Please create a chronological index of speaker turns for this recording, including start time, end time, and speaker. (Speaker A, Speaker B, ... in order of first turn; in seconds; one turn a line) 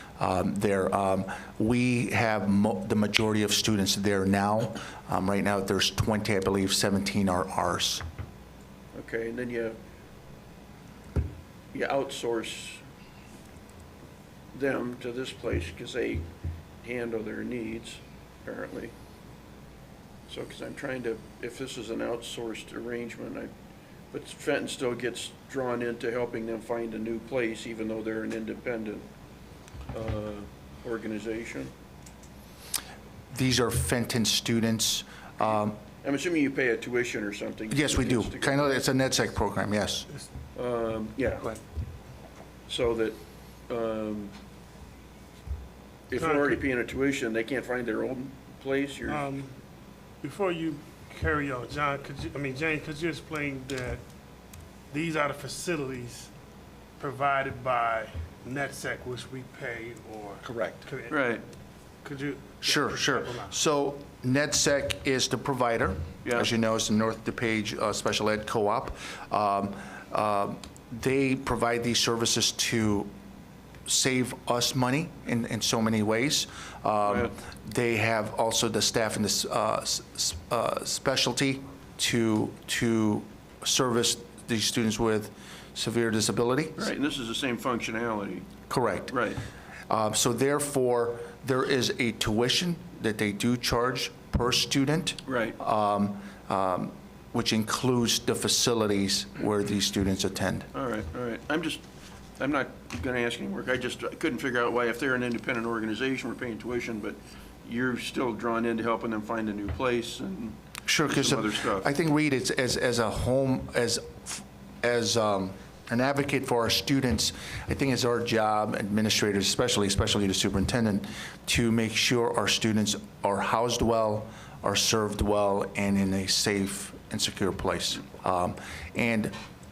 Speaker A: 0.2-8.0
Speaker B: 8.9-9.8
Speaker B: 11.7-12.8
Speaker B: 14.5-16.3
Speaker B: 16.8-18.9
Speaker B: 20.3-23.5
Speaker B: 24.1-29.1
Speaker B: 29.9-31.7
Speaker A: 33.3-35.8
Speaker B: 36.0-38.7
Speaker A: 37.7-40.1
Speaker B: 40.5-41.5
Speaker B: 42.7-44.4
Speaker B: 46.1-49.3
Speaker C: 46.2-46.6
Speaker C: 49.1-49.5
Speaker C: 50.2-54.0
Speaker C: 54.9-56.3
Speaker C: 57.0-61.3
Speaker A: 60.4-60.9
Speaker B: 61.1-61.4
Speaker C: 62.0-63.4
Speaker A: 62.6-73.1
Speaker B: 66.2-66.5
Speaker A: 73.9-86.8
Speaker B: 77.1-77.3
Speaker B: 86.8-88.5
Speaker A: 88.7-89.2
Speaker B: 89.1-89.4
Speaker A: 89.9-100.7
Speaker B: 95.3-95.6
Speaker B: 100.7-101.8
Speaker B: 102.4-111.9
Speaker A: 110.9-129.3